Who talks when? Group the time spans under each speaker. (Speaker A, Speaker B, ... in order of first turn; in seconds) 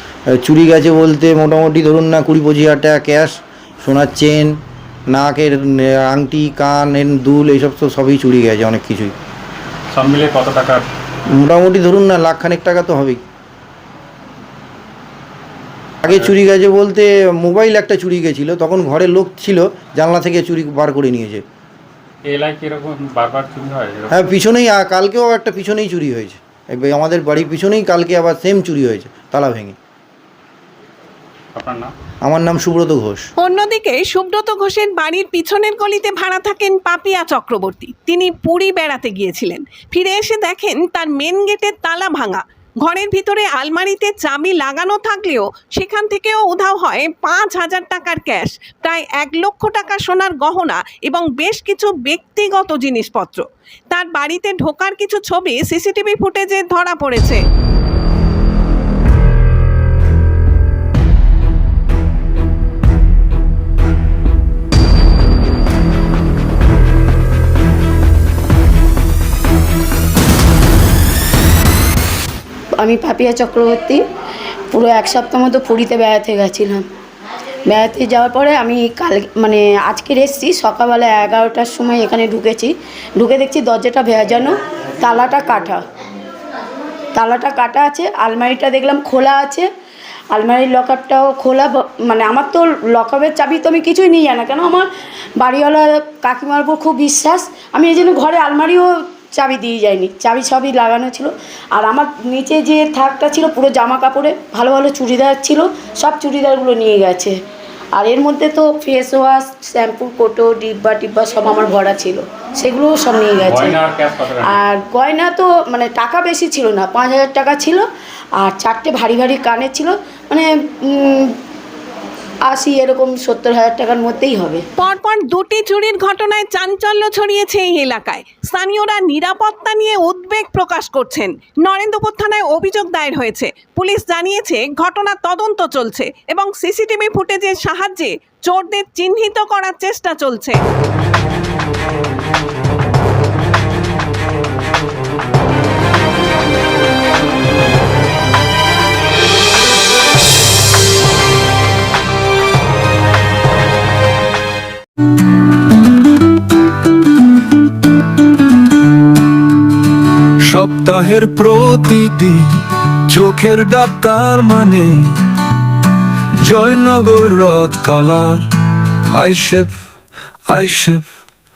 Speaker A: 0.3-4.6, 5.1-9.1, 11.3-13.2, 16.0-21.4, 24.1-29.8, 32.2-33.3
Speaker B: 9.9-10.8, 22.2-24.2, 31.5-31.9, 113.3-114.7
Speaker C: 33.4-57.4, 124.8-140.6
Speaker D: 72.8-74.0, 74.7-76.8, 77.7-85.8, 87.1-89.7, 90.3-94.9, 95.4-107.4, 108.0-113.8, 114.5-117.8, 118.4-121.3, 122.5-124.6
Speaker E: 160.4-165.2, 166.4-168.5, 169.1-169.7, 170.5-171.1